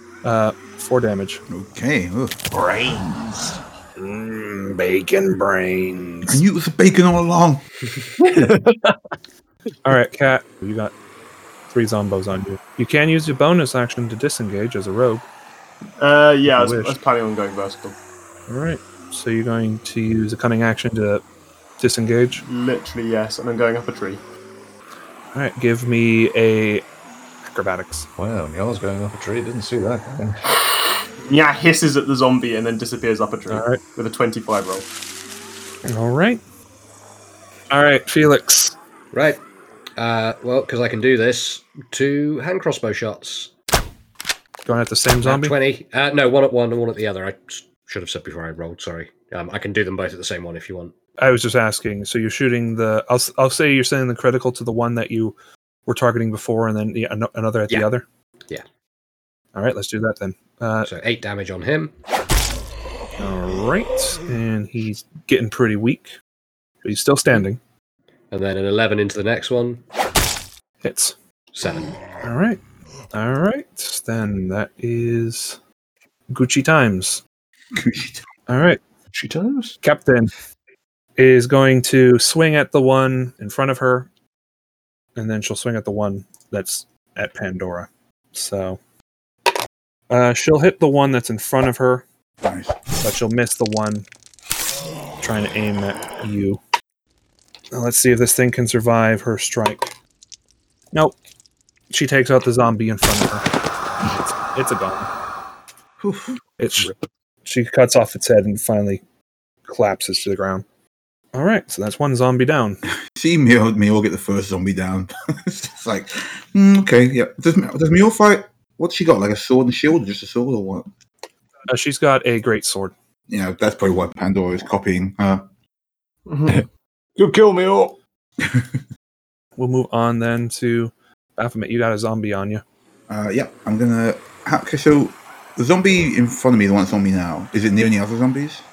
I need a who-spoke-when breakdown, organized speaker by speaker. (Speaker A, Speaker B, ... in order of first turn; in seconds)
Speaker A: 0.2-1.4, 2.5-6.4, 9.8-10.9, 11.7-15.2, 16.5-17.0, 18.5-21.2, 21.8-22.4, 25.3-26.9, 27.4-28.1, 33.5-33.8, 35.9-36.4, 37.7-38.7, 44.6-45.5, 51.2-55.3, 55.9-58.0, 59.5-60.9, 63.2-66.1, 66.8-67.6, 70.8-71.1, 72.2-72.6, 73.1-75.6, 76.3-77.2, 78.5-78.8, 79.8-80.3, 81.2-84.1, 85.2-88.8, 90.1-92.0, 93.0-94.1, 95.2-96.6, 97.7-99.9, 101.9-103.5, 104.1-105.1, 106.6-106.9, 107.4-109.0, 109.7-110.6, 111.3-112.8, 121.7-122.9, 129.6-132.6
Speaker B: 1.5-2.4, 6.2-7.6, 77.7-78.2, 92.4-92.8, 106.0-106.3, 113.1-120.9, 123.3-125.4, 128.4-128.7, 133.1-138.6
Speaker C: 8.2-9.0, 28.2-30.6, 79.1-79.8, 127.2-128.0
Speaker D: 16.0-18.0, 22.4-24.2, 31.2-34.9, 126.3-126.6
Speaker E: 39.1-39.4, 40.0-43.5, 45.2-50.9, 60.8-61.9, 68.3-69.8, 71.5-71.9